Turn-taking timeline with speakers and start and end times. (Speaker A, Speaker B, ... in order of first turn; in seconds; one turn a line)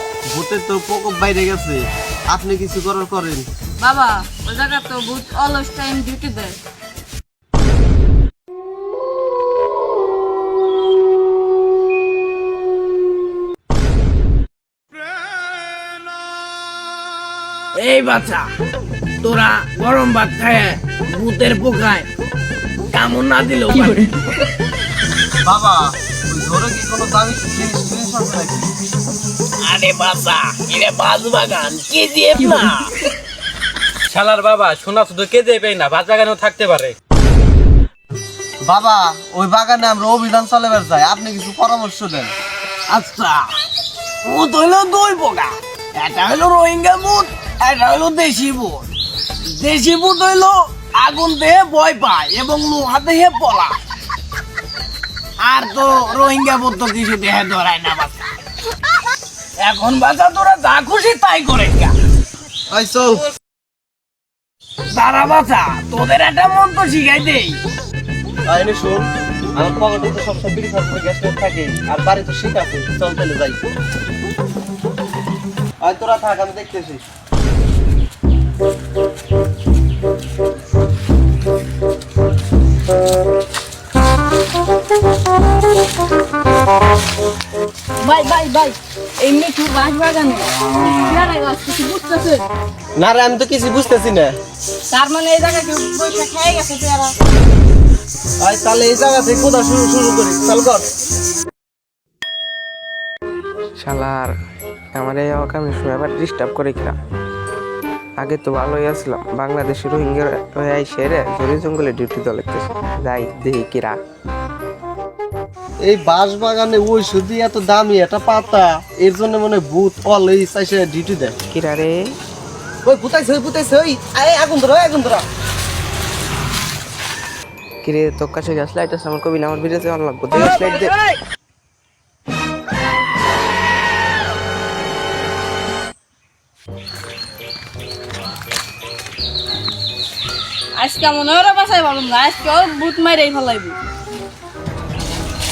Speaker A: 0.3-3.4
Speaker B: 3.8-6.6
Speaker C: 17.7-18.5
Speaker C: 19.2-22.1
Speaker C: 22.9-24.1
Speaker A: 25.4-28.7
Speaker C: 29.6-32.9
Speaker D: 34.1-36.9
Speaker A: 38.6-42.3
Speaker C: 42.9-43.5
Speaker C: 44.2-48.9
Speaker C: 49.5-53.8
Speaker C: 55.4-58.3
Speaker C: 59.6-61.9
Speaker A: 62.7-63.2
Speaker C: 64.9-67.6
Speaker A: 68.5-73.6
Speaker A: 75.8-77.0
Speaker B: 88.0-92.4
Speaker A: 93.0-94.3
Speaker B: 94.9-97.1
Speaker A: 98.4-100.8
Speaker E: 103.8-104.3
Speaker E: 104.9-107.0
Speaker E: 108.2-114.0
Speaker A: 115.8-121.3
Speaker E: 121.5-122.1
Speaker A: 122.8-125.2
Speaker E: 127.8-131.0
Speaker B: 140.8-143.8